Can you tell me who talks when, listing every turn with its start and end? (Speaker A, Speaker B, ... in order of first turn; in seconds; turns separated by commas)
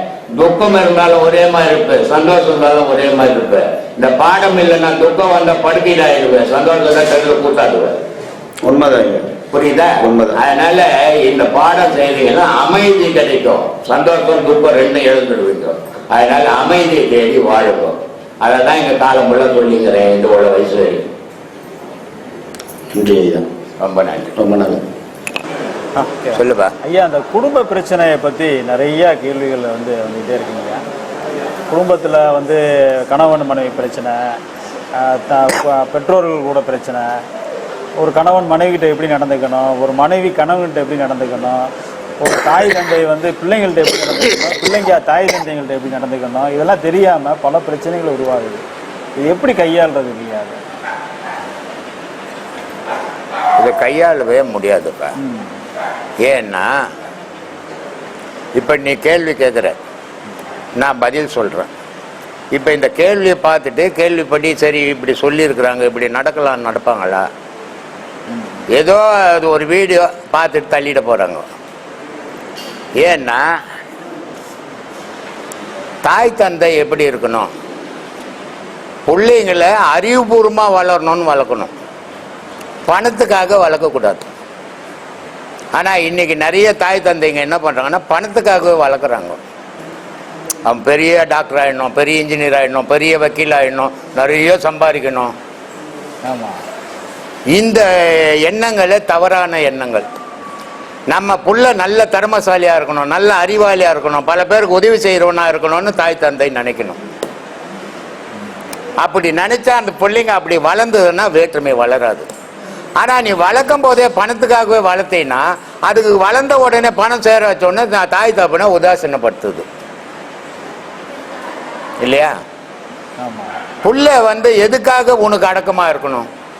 Speaker A: 0.3-8.0, Speaker B: 8.7-9.3, Speaker A: 9.5-21.0, Speaker B: 10.0-10.4, Speaker B: 22.9-23.4, Speaker A: 23.8-24.3, Speaker B: 24.4-24.9, Speaker C: 25.9-30.8, Speaker A: 26.3-26.7, Speaker C: 31.7-34.4, Speaker C: 35.0-37.1, Speaker C: 38.0-48.6, Speaker C: 49.2-50.6, Speaker A: 53.6-55.1, Speaker C: 55.2-55.5, Speaker A: 56.2-56.7, Speaker A: 58.5-59.8, Speaker A: 60.8-61.7, Speaker A: 62.5-67.3, Speaker C: 68.3-68.6, Speaker A: 68.7-71.4, Speaker A: 73.0-73.4, Speaker A: 76.0-77.5, Speaker A: 79.1-81.7, Speaker A: 82.9-84.3, Speaker A: 85.8-89.4, Speaker A: 90.7-95.3, Speaker C: 96.2-96.6, Speaker A: 97.5-100.1, Speaker A: 101.1-107.0, Speaker A: 109.0-112.3, Speaker A: 113.0-119.7, Speaker A: 122.0-122.3, Speaker C: 123.2-123.5, Speaker A: 123.8-126.3